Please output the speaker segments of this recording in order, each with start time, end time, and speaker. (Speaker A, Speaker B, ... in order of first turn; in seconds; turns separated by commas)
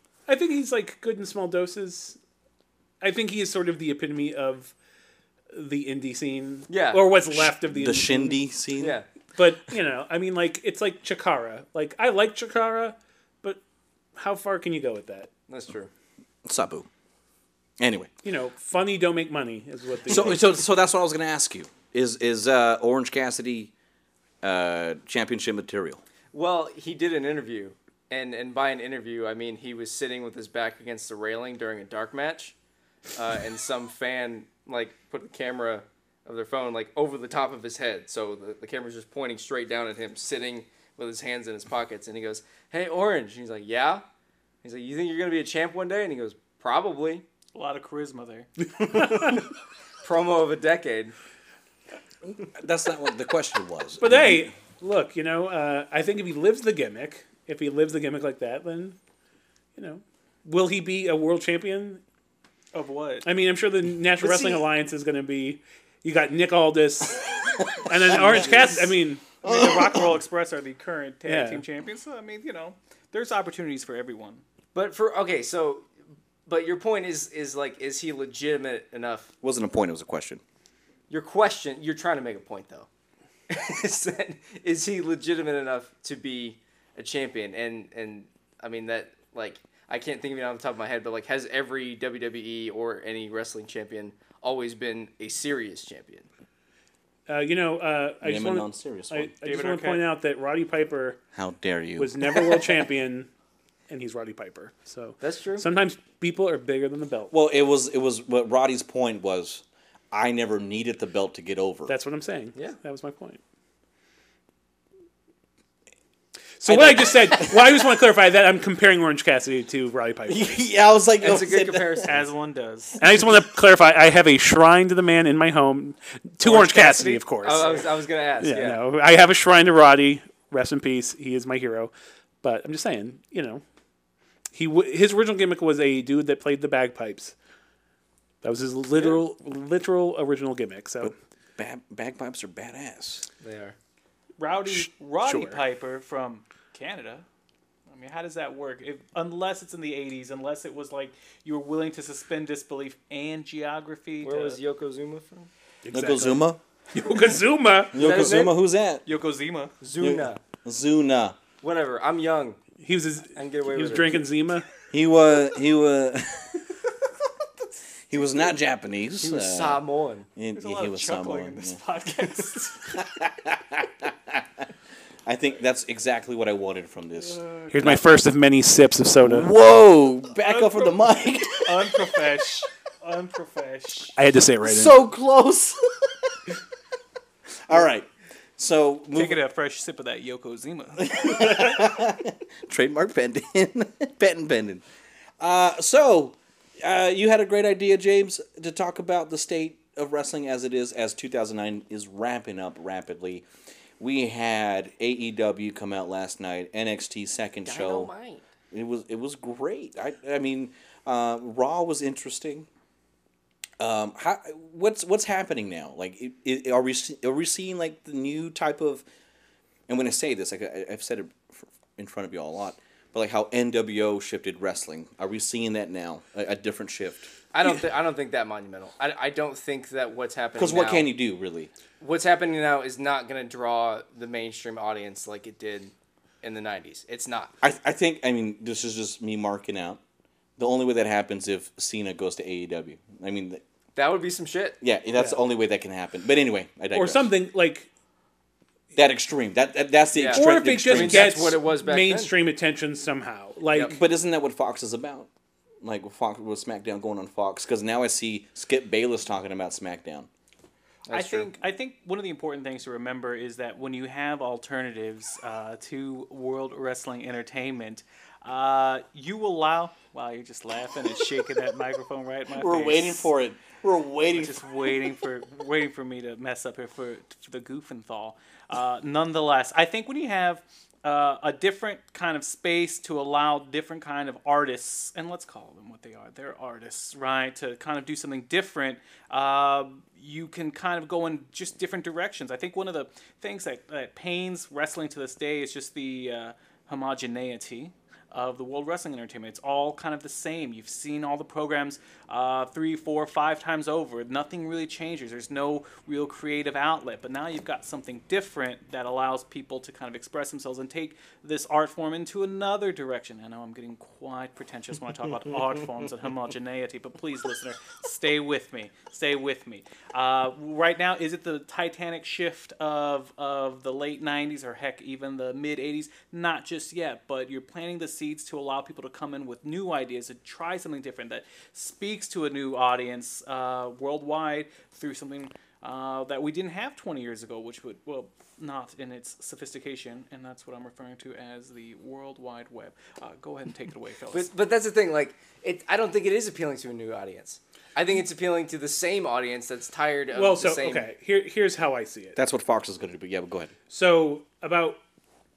Speaker A: 0.3-2.2, Speaker A: 3.0-4.8, Speaker A: 5.5-8.4, Speaker B: 6.7-7.1, Speaker C: 7.3-9.0, Speaker B: 8.8-9.1, Speaker A: 9.4-13.6, Speaker A: 14.2-15.3, Speaker B: 15.5-15.9, Speaker C: 16.5-16.9, Speaker C: 17.8-18.1, Speaker A: 18.2-20.4, Speaker C: 20.1-23.7, Speaker C: 24.4-26.0, Speaker B: 26.3-32.5, Speaker B: 33.1-44.0, Speaker B: 44.6-47.2, Speaker D: 47.5-48.5, Speaker A: 48.8-49.3, Speaker B: 50.0-51.2, Speaker C: 52.3-54.5, Speaker A: 54.0-59.0, Speaker A: 59.8-62.0, Speaker D: 62.7-63.3, Speaker A: 63.2-69.7, Speaker D: 64.2-64.6, Speaker C: 67.8-68.7, Speaker D: 68.2-68.8, Speaker D: 69.4-74.4, Speaker C: 69.5-69.9, Speaker A: 71.2-71.7, Speaker B: 74.7-75.9, Speaker B: 76.5-79.3, Speaker C: 79.4-80.4, Speaker B: 81.1-82.9, Speaker B: 83.5-96.3, Speaker A: 97.3-101.2, Speaker C: 98.2-99.3, Speaker D: 99.4-100.0, Speaker C: 101.3-102.6, Speaker A: 102.0-103.3, Speaker A: 103.9-107.3, Speaker B: 105.2-105.7, Speaker C: 107.3-111.9, Speaker A: 111.9-113.4, Speaker A: 116.6-120.6, Speaker C: 116.7-117.7, Speaker C: 120.3-122.2, Speaker B: 121.2-122.2, Speaker D: 122.1-123.0, Speaker A: 123.0-133.6, Speaker D: 126.7-127.1, Speaker B: 127.4-128.8, Speaker A: 134.5-137.3, Speaker A: 138.4-141.2, Speaker D: 138.9-139.2, Speaker C: 141.0-143.3, Speaker B: 143.4-143.8, Speaker D: 144.4-147.3, Speaker A: 144.7-145.6, Speaker D: 147.9-154.6, Speaker B: 154.2-155.5, Speaker A: 155.8-158.1, Speaker C: 155.9-156.6, Speaker C: 157.9-159.0, Speaker B: 157.9-158.5, Speaker D: 159.1-159.7, Speaker B: 159.8-160.4, Speaker C: 160.0-161.4, Speaker B: 161.6-162.6, Speaker A: 162.8-164.7, Speaker B: 163.3-164.2, Speaker C: 164.9-166.6, Speaker C: 168.1-169.8, Speaker B: 169.2-170.3, Speaker C: 170.4-171.8, Speaker D: 170.6-172.9, Speaker C: 172.9-174.7, Speaker C: 175.3-178.0, Speaker D: 177.2-178.0, Speaker A: 177.7-179.5, Speaker C: 179.2-182.2, Speaker D: 180.4-184.2, Speaker A: 184.2-185.0, Speaker C: 184.6-186.3, Speaker C: 187.7-189.4, Speaker D: 189.2-191.6, Speaker C: 191.0-194.8, Speaker C: 195.4-203.5, Speaker C: 204.0-208.1, Speaker B: 207.7-208.4, Speaker C: 208.7-212.7, Speaker C: 213.8-219.1, Speaker C: 219.9-227.3, Speaker B: 227.5-231.1, Speaker C: 230.6-231.7, Speaker B: 232.0-237.6, Speaker C: 237.6-240.0, Speaker C: 240.6-243.6, Speaker B: 243.9-244.8, Speaker C: 244.8-247.3, Speaker A: 246.9-247.9, Speaker C: 248.9-251.6, Speaker B: 250.1-252.3, Speaker A: 250.3-254.0, Speaker C: 253.9-255.3, Speaker C: 255.8-260.3, Speaker B: 261.1-261.5, Speaker D: 261.1-273.3, Speaker C: 272.5-274.6, Speaker D: 274.3-344.5, Speaker B: 344.3-351.1, Speaker A: 350.3-352.4, Speaker C: 352.4-353.7, Speaker A: 353.9-355.0